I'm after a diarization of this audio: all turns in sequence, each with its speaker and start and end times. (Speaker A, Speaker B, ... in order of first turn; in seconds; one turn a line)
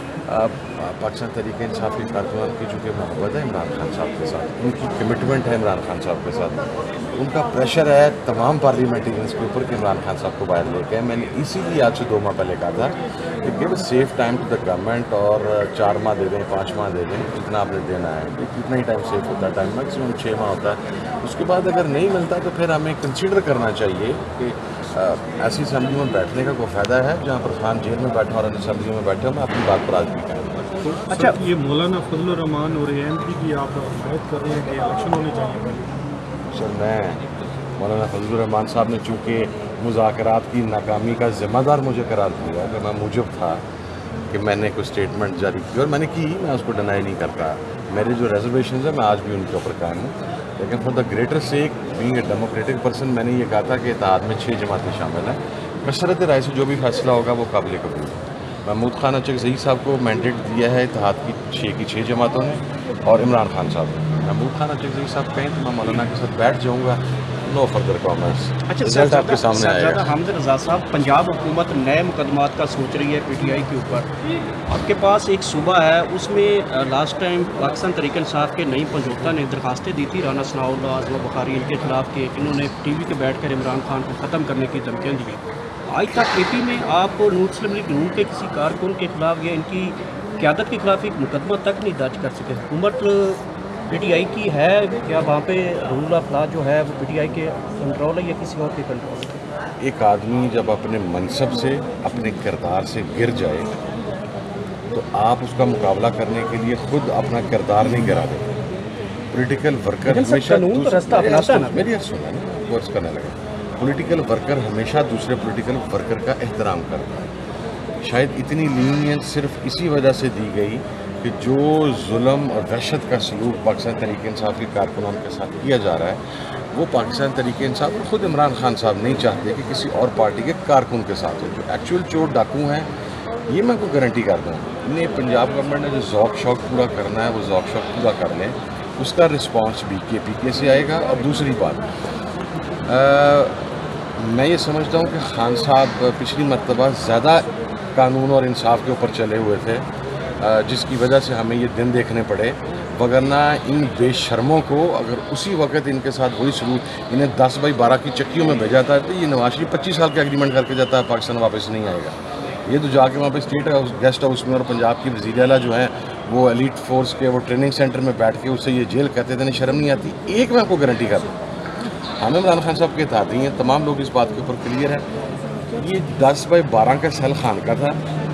Speaker A: 0.3-30.6
Speaker B: 30.8-35.9
Speaker C: 31.1-31.4
Speaker A: 36.5-37.2
Speaker A: 37.8-43.6
Speaker A: 44.3-70.1
Speaker C: 68.7-74.1
Speaker C: 74.7-99.4
Speaker A: 99.8-103.7
Speaker A: 104.9-108.5
Speaker A: 109.3-117.3
Speaker C: 110.0-111.9
Speaker A: 118.0-132.9
Speaker A: 133.5-141.8
Speaker A: 142.8-149.8
Speaker A: 150.4-171.3
Speaker A: 172.2-175.0
Speaker A: 175.8-178.0